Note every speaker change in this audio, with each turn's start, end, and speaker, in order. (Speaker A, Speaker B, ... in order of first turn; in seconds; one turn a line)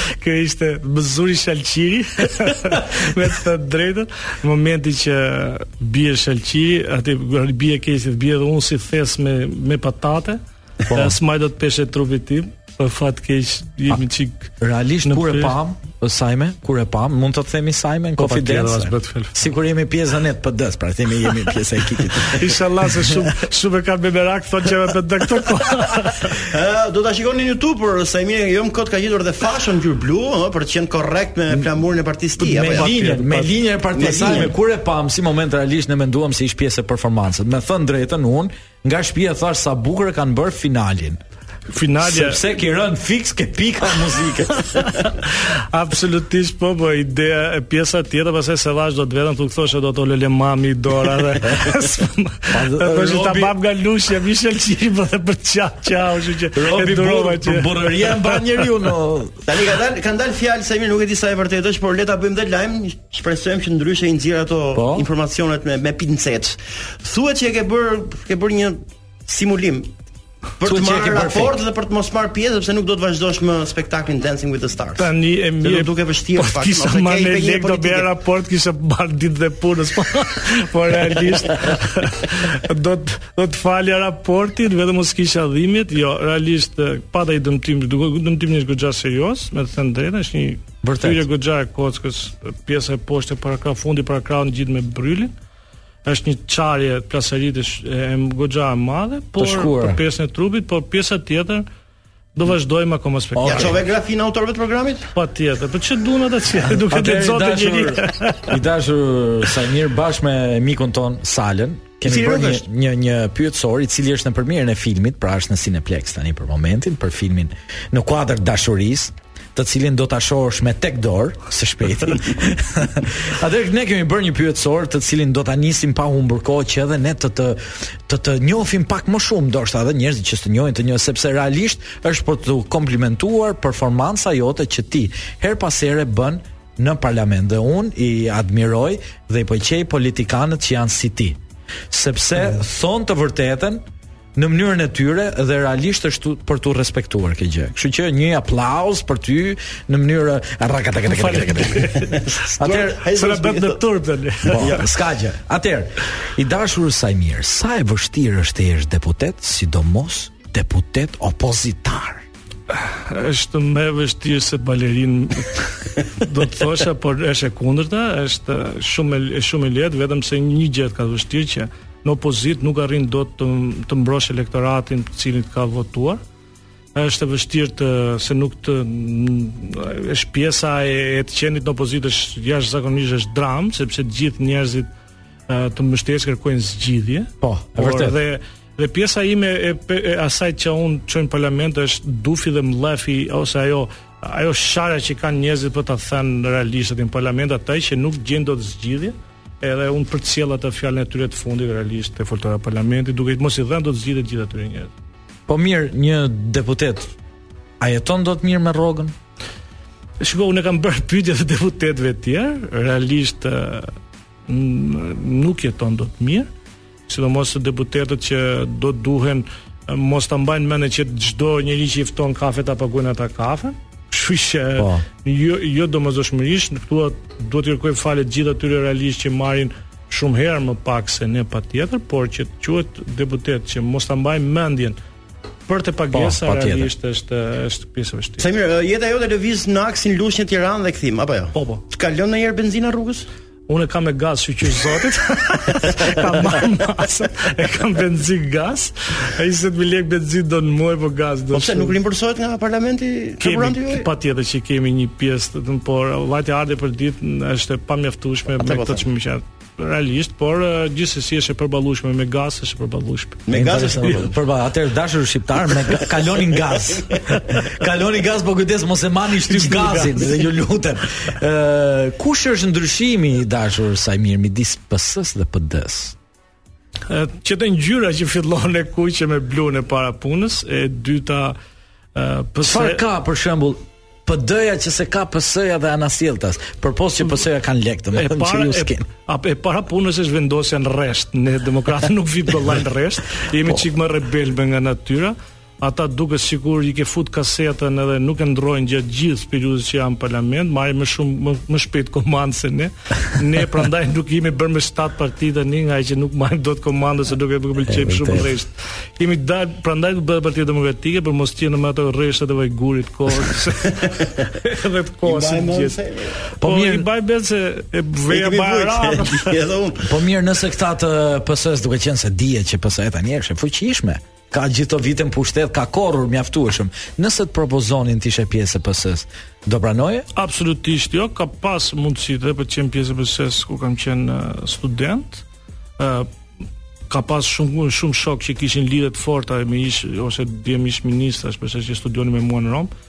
Speaker A: 0.1-10.4
Speaker B: 10.9-11.2
Speaker A: 10.9-14.5
Speaker B: 14.6-22.4
Speaker A: 15.1-15.6
Speaker A: 18.2-19.4
Speaker A: 22.2-26.3
Speaker C: 26.5-33.2
Speaker B: 32.4-41.2
Speaker A: 32.6-33.5
Speaker C: 33.9-34.5
Speaker A: 41.7-42.4
Speaker B: 42.0-44.8
Speaker A: 44.5-58.6
Speaker B: 52.5-53.5
Speaker B: 56.5-59.4
Speaker C: 59.5-69.9
Speaker B: 64.7-65.1
Speaker C: 70.6-78.1
Speaker B: 70.6-71.5
Speaker A: 75.0-95.3
Speaker B: 90.8-91.2
Speaker A: 96.0-101.7
Speaker B: 99.4-100.0
Speaker A: 102.4-103.8
Speaker B: 103.3-103.8
Speaker C: 103.4-105.1
Speaker A: 105.1-108.5
Speaker B: 106.7-141.4
Speaker C: 112.0-112.6
Speaker B: 141.9-143.8
Speaker B: 144.4-153.0
Speaker A: 151.1-152.3
Speaker C: 152.1-153.8
Speaker A: 153.0-154.9
Speaker C: 154.5-154.8
Speaker B: 154.5-162.2
Speaker A: 162.7-176.2
Speaker A: 176.9-184.9
Speaker A: 185.5-204.9
Speaker B: 187.4-188.2
Speaker B: 205.5-207.1
Speaker B: 207.8-209.1
Speaker A: 210.2-213.9
Speaker A: 214.5-216.5
Speaker A: 217.1-235.0
Speaker B: 224.8-225.1
Speaker A: 235.7-238.5
Speaker B: 236.1-236.9
Speaker C: 238.4-243.3
Speaker A: 241.6-241.8
Speaker A: 243.7-251.9
Speaker C: 251.5-254.1
Speaker A: 253.4-263.4
Speaker C: 258.6-259.1
Speaker C: 263.5-264.3
Speaker B: 263.5-276.1
Speaker A: 269.5-270.4
Speaker A: 277.1-281.6
Speaker A: 282.1-283.0
Speaker B: 282.6-289.1
Speaker A: 288.1-315.9
Speaker B: 307.9-308.5
Speaker C: 315.2-316.4
Speaker B: 316.6-317.1
Speaker A: 316.6-319.6
Speaker C: 318.3-320.1
Speaker B: 320.0-330.3
Speaker A: 330.3-335.4
Speaker A: 336.0-336.3
Speaker A: 337.1-342.9